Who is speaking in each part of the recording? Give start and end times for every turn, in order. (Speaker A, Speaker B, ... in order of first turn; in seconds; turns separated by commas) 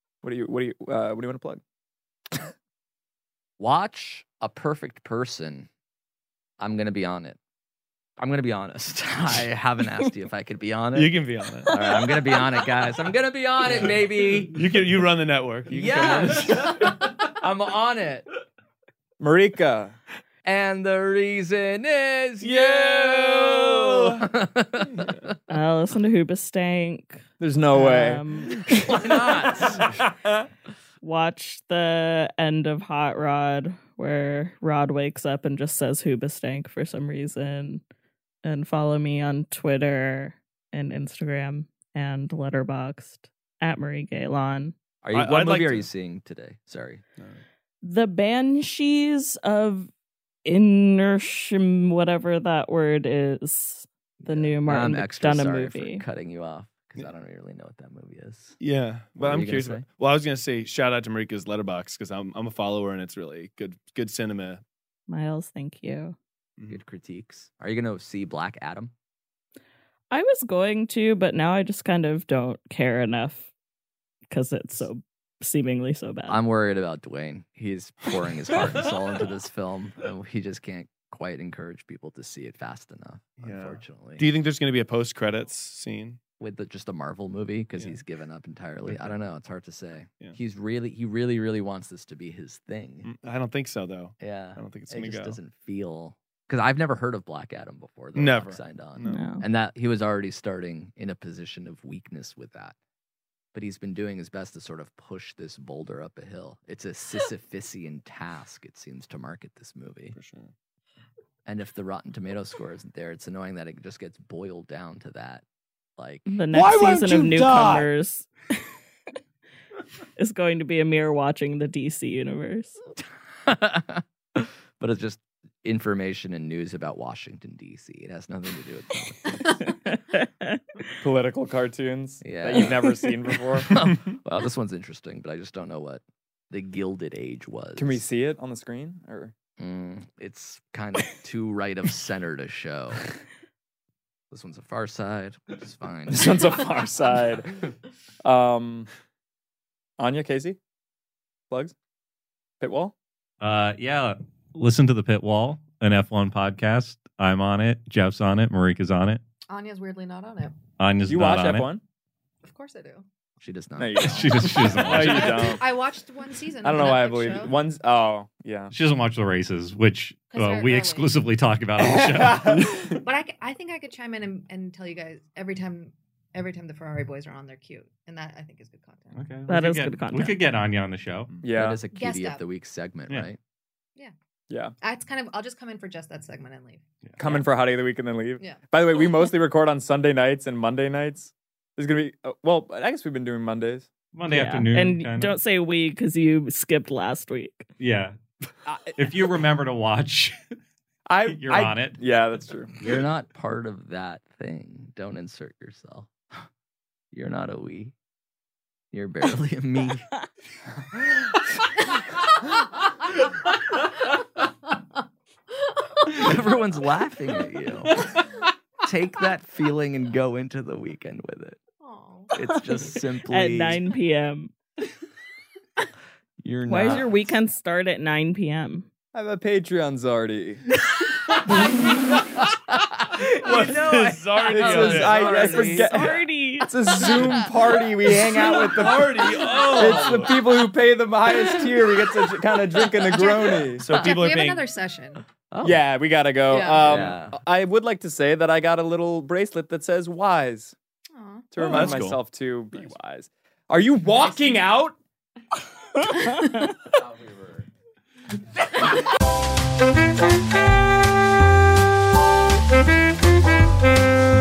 Speaker A: 0.2-1.6, Speaker B: 3.6-5.7, Speaker B: 6.6-7.4, Speaker B: 8.2-14.6, Speaker C: 10.9-11.7, Speaker C: 14.5-17.2, Speaker B: 15.7-18.3, Speaker A: 19.2-20.0, Speaker B: 20.4-25.3, Speaker C: 22.4-24.3, Speaker D: 25.5-28.6, Speaker A: 27.4-29.8, Speaker B: 28.7-29.9, Speaker D: 31.0-37.8, Speaker D: 38.4-44.7, Speaker B: 45.0-47.0, Speaker C: 45.1-45.9, Speaker D: 47.8-49.9, Speaker D: 50.5-56.0, Speaker B: 54.2-58.6, Speaker C: 58.6-64.6, Speaker B: 59.2-59.9, Speaker D: 65.1-66.2, Speaker B: 66.7-68.9, Speaker D: 70.1-73.5, Speaker D: 74.3-76.4, Speaker B: 76.3-84.3, Speaker C: 83.4-86.2, Speaker B: 86.4-93.1, Speaker C: 88.8-89.1, Speaker C: 93.0-95.4, Speaker B: 94.2-102.8, Speaker C: 98.1-99.3, Speaker D: 99.1-99.5, Speaker B: 103.5-110.2, Speaker C: 110.1-110.5, Speaker B: 111.5-115.4, Speaker B: 116.0-116.3, Speaker D: 116.3-118.6, Speaker A: 116.5-117.8, Speaker D: 120.2-122.8, Speaker B: 123.0-129.6, Speaker D: 129.6-130.6, Speaker A: 131.0-133.7, Speaker B: 132.2-133.0, Speaker B: 133.5-138.0, Speaker C: 133.7-134.2, Speaker A: 137.8-139.3, Speaker B: 139.6-143.1, Speaker B: 144.3-146.5, Speaker A: 146.1-147.7, Speaker A: 148.2-148.9, Speaker A: 150.0-150.6, Speaker A: 152.6-152.9, Speaker E: 153.4-159.2, Speaker F: 159.5-160.6, Speaker E: 160.8-161.7, Speaker A: 161.1-161.8, Speaker F: 162.4-163.1, Speaker B: 163.4-165.4, Speaker A: 163.8-165.6, Speaker E: 164.0-165.4, Speaker F: 164.7-167.6, Speaker A: 166.6-168.7, Speaker E: 168.7-172.9, Speaker F: 170.3-171.2, Speaker A: 171.8-173.0, Speaker F: 172.9-179.4, Speaker E: 179.1-181.4, Speaker D: 179.5-180.4, Speaker A: 181.4-181.9, Speaker B: 181.5-183.4, Speaker F: 181.9-182.4, Speaker F: 184.8-186.8, Speaker A: 187.2-193.9, Speaker F: 188.4-188.7, Speaker E: 194.1-195.4, Speaker D: 194.3-197.7, Speaker E: 197.8-198.1, Speaker A: 198.7-199.0, Speaker E: 199.0-200.4, Speaker A: 201.1-202.7, Speaker E: 201.3-202.0, Speaker B: 202.8-206.4, Speaker B: 207.1-207.9, Speaker B: 208.9-210.1, Speaker B: 216.1-218.1, Speaker B: 218.8-221.6, Speaker F: 221.8-222.3, Speaker B: 222.3-223.8, Speaker D: 222.5-224.5, Speaker B: 226.4-227.3, Speaker D: 226.7-228.9, Speaker A: 229.1-230.6, Speaker B: 231.5-231.9, Speaker B: 232.7-236.1, Speaker C: 233.2-235.4, Speaker A: 234.5-244.0, Speaker D: 235.3-237.1, Speaker B: 237.0-237.5, Speaker C: 238.3-240.4, Speaker B: 238.4-238.6, Speaker B: 239.5-240.2, Speaker F: 243.0-245.2, Speaker C: 243.8-244.6, Speaker B: 245.5-245.8, Speaker A: 245.6-250.8, Speaker F: 246.5-247.1, Speaker B: 246.8-247.4, Speaker F: 251.1-251.7, Speaker A: 251.5-254.9, Speaker C: 251.6-252.9, Speaker F: 254.2-254.6, Speaker B: 256.9-257.7